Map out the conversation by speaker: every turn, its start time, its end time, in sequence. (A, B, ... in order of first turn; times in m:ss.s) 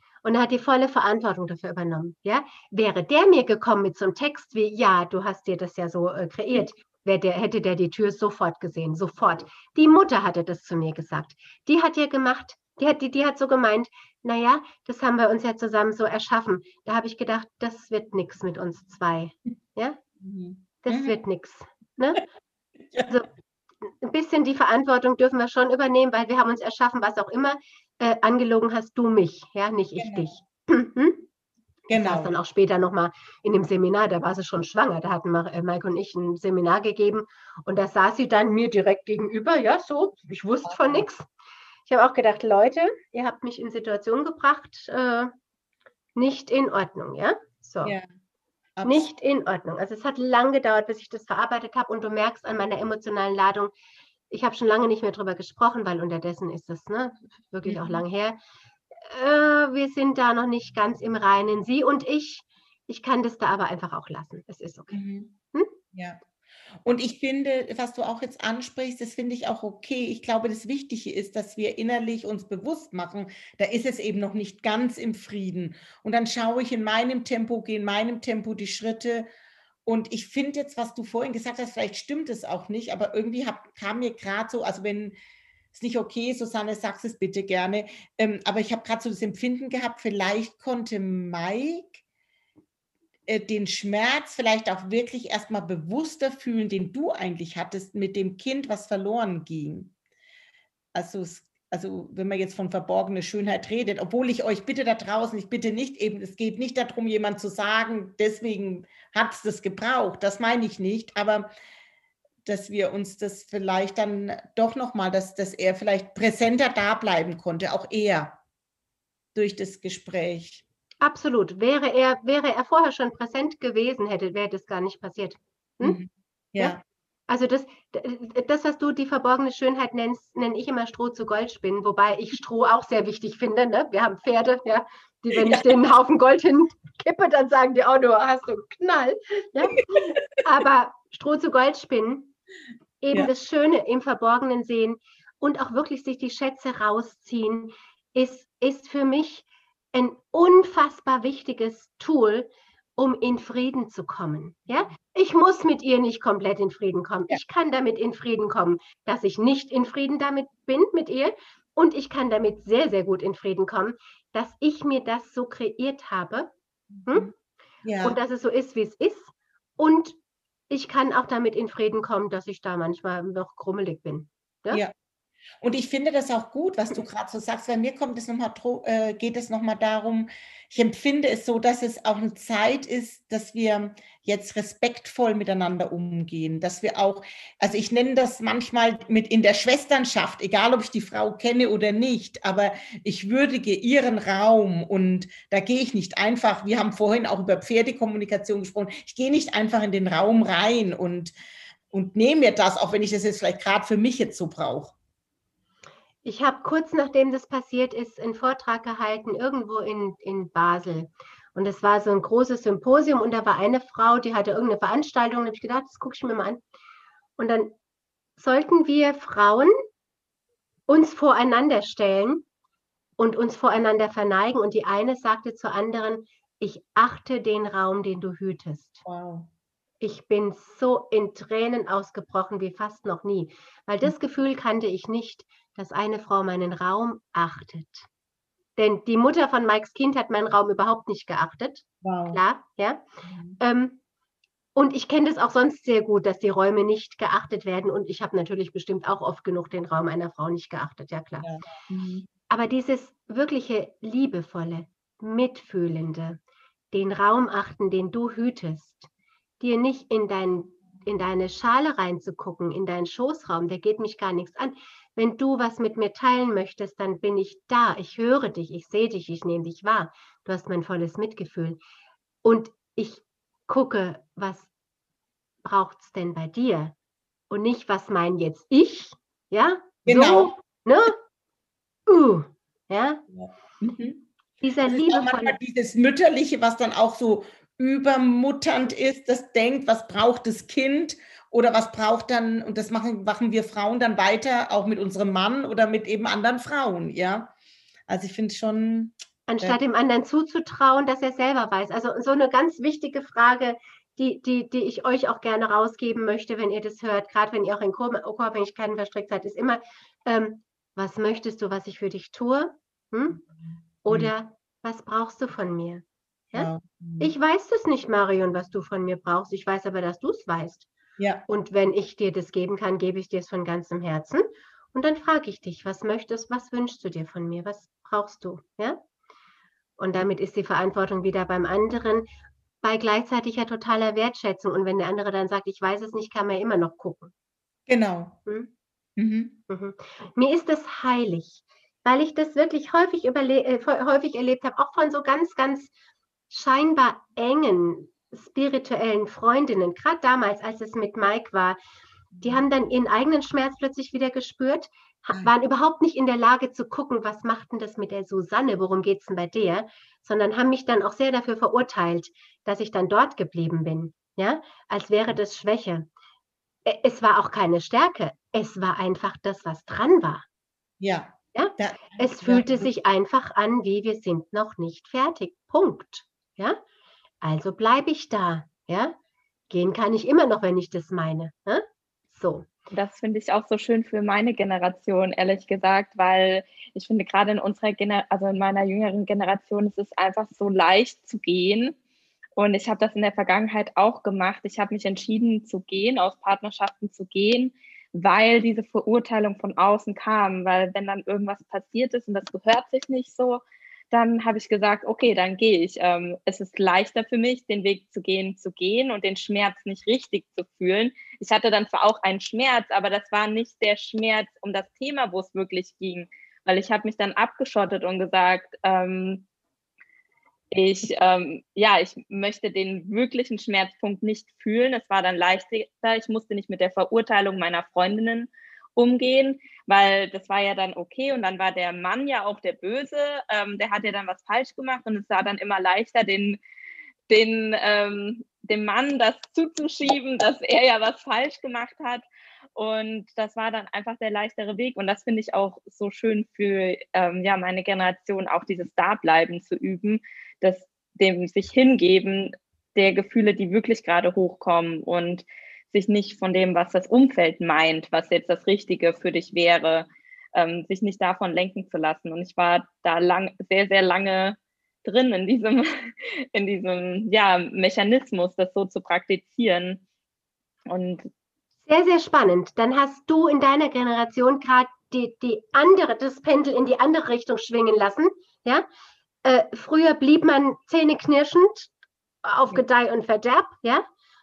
0:00.2-0:20.0 A
0:20.2-0:21.2 B
0:20.8-0:22.2 A
0:22.9-0:23.2 B
0:23.8-0:31.2 A
0:30.0-0:30.3 B
0:31.9-0:41.3 A
0:31.9-0:32.3 B
0:40.7-0:41.0 B
0:41.9-0:45.3 A
0:46.2-0:48.0 A
0:48.8-0:49.1 B
0:48.8-0:53.7 A
0:54.3-0:58.4 A
0:57.7-0:58.0 B
0:59.0-1:05.0 A
1:04.9-1:05.3 B
1:05.9-1:06.2 B
1:06.8-1:19.3 B
1:19.9-1:25.2 B
1:25.7-1:32.0 B
1:33.3-1:39.9 B
1:40.9-1:51.5 B
1:52.4-1:58.4 B
1:59.4-2:00.6 B
2:01.0-2:06.0 A
2:05.8-2:06.8 B
2:06.6-2:22.3 A
2:15.3-2:15.7 B
2:19.9-2:20.2 B
2:23.0-2:46.5 A
2:47.0-2:47.3 B
2:47.8-2:48.2 B
2:48.0-2:50.2 A
2:50.7-2:54.8 A
2:55.6-3:21.3 B
3:21.9-3:24.9 B
3:26.2-3:36.6 A
3:37.4-3:37.7 A
3:38.4-3:39.7 A
3:40.9-3:42.4 A
3:43.2-3:49.0 A
3:49.0-3:49.5 B
3:50.0-3:58.1 A
3:58.8-4:03.0 A
4:02.0-4:02.4 B
4:03.3-4:03.6 B
4:03.6-4:04.0 A
4:04.8-4:11.5 A
4:11.4-4:12.3 B
4:12.5-4:16.4 A
4:16.9-4:19.1 A
4:19.6-4:31.8 A
4:32.4-4:34.7 A
4:35.6-4:36.9 A
4:37.5-4:41.2 A
4:40.1-4:40.5 B
4:42.1-4:43.2 A
4:43.3-4:44.3 B
4:44.6-4:45.6 A
4:44.9-4:57.5 B
4:58.1-4:59.8 B
4:59.5-5:13.4 A
5:14.0-5:20.9 A
5:16.6-5:17.3 B
5:21.2-5:21.4 B
5:21.5-5:29.0 A
5:30.0-5:32.3 A
5:32.8-5:37.3 A
5:37.9-5:38.4 B
5:39.2-5:39.6 B
5:39.7-5:45.9 A
5:46.5-5:51.8 A
5:52.4-5:52.6 B
5:52.4-6:06.1 A
6:06.9-6:10.4 A
6:11.0-6:12.9 B
6:11.5-6:16.8 A
6:17.4-6:19.2 A
6:19.7-6:22.7 A
6:22.9-6:32.0 C
6:32.6-6:59.4 C
7:00.7-7:16.6 C
7:17.3-7:50.0 C
7:50.9-7:51.3 C
7:51.9-7:58.9 A
7:59.4-8:01.9 A
8:02.4-8:04.1 A